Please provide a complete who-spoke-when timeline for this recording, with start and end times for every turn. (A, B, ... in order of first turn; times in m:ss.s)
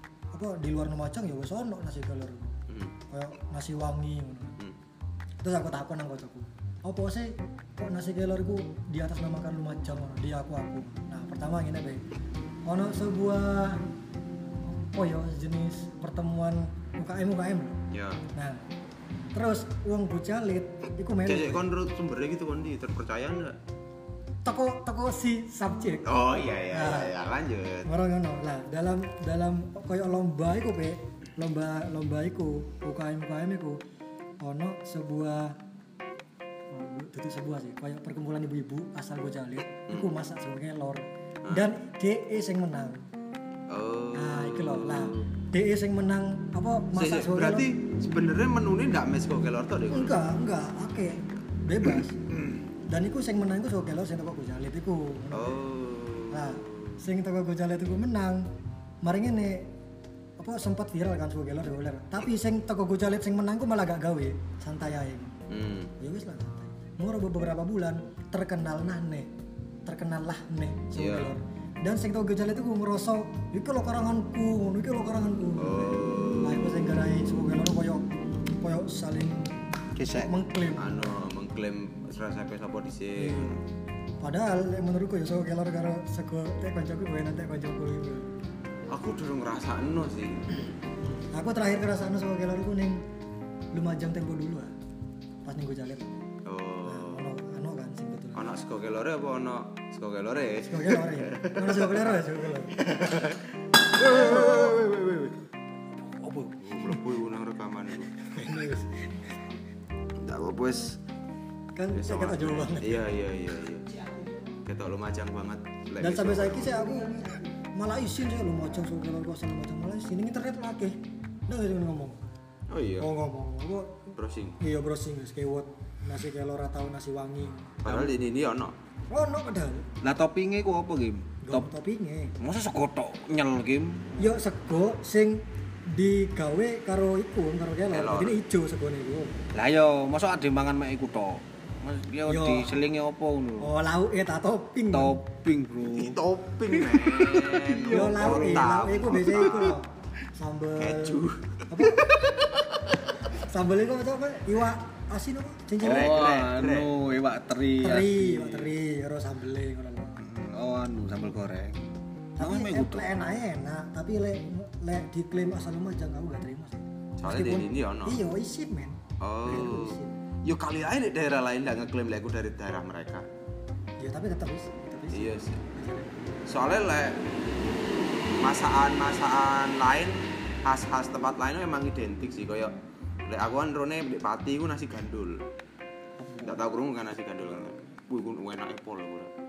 0:00.3-0:02.6 A
0:02.7-0:02.9 B
0:03.1-0:04.6 A
0:05.4-0:12.0 A
0:12.7-0:13.8 A
0:14.6-0:17.8 A
0:17.9-0:18.2 B
0:19.3-0:21.7 A
0:21.2-0:23.6 B
0:24.4-0:26.1 A
0:26.0-0:27.9 B
0:26.7-0:27.1 A
0:27.8-0:33.8 A
0:34.4-0:35.6 A
0:36.7-0:43.0 A
0:43.7-0:45.2 B
0:44.1-0:47.7 A
0:46.9-0:50.2 B
0:49.9-0:52.2 A
0:52.3-0:52.6 B
0:52.9-0:55.6 A
0:55.3-0:57.0 B
0:56.3-0:58.4 A
0:59.0-0:59.7 A
1:00.4-1:05.3 A
1:05.5-1:05.9 B
1:06.0-1:09.3 A
1:09.8-1:19.5 A
1:10.9-1:11.3 B
1:15.6-1:16.7 B
1:20.0-1:20.3 C
1:20.1-1:21.2 A
1:20.8-1:23.6 B
1:23.2-1:23.6 A
1:24.2-1:28.3 A
1:28.9-1:30.7 B
1:31.1-1:33.0 A
1:33.7-1:34.7 A
1:35.4-1:36.1 A
1:36.4-1:37.2 B
1:36.8-1:38.6 A
1:38.4-1:45.0 B
1:40.7-1:42.8 A
1:44.0-1:45.2 C
1:46.0-1:46.7 C
1:46.6-1:48.1 B
1:48.3-1:49.5 A
1:50.2-1:51.0 B
1:51.8-1:53.0 A
1:51.9-1:53.9 B
1:54.6-1:56.8 B
1:56.0-2:01.0 A
2:01.5-2:02.2 A
2:02.7-2:03.1 B
2:03.0-2:08.1 A
2:04.1-2:04.6 B
2:07.8-2:08.7 B
2:09.1-2:09.9 A
2:10.0-2:11.7 C
2:11.4-2:12.3 A
2:12.4-2:14.3 C
2:14.2-2:19.4 A
2:17.9-2:18.4 B
2:19.5-2:23.7 C
2:22.2-2:22.7 A
2:23.6-2:25.2 A
2:24.9-2:28.6 C
2:25.9-2:29.8 B
2:27.9-2:32.4 A
2:30.8-2:32.4 B
2:33.2-2:36.2 A
2:35.8-2:36.9 B
2:35.8-2:38.7 C
2:37.8-2:40.2 A
2:40.2-2:43.1 C
2:42.4-2:50.2 A
2:47.2-2:48.2 B
2:49.2-2:53.2 B
2:54.0-2:56.1 A
2:55.1-2:55.6 B
2:56.5-2:57.2 B
2:58.3-3:02.7 B
3:03.2-3:05.4 B
3:06.2-3:06.6 A
3:06.4-3:09.3 B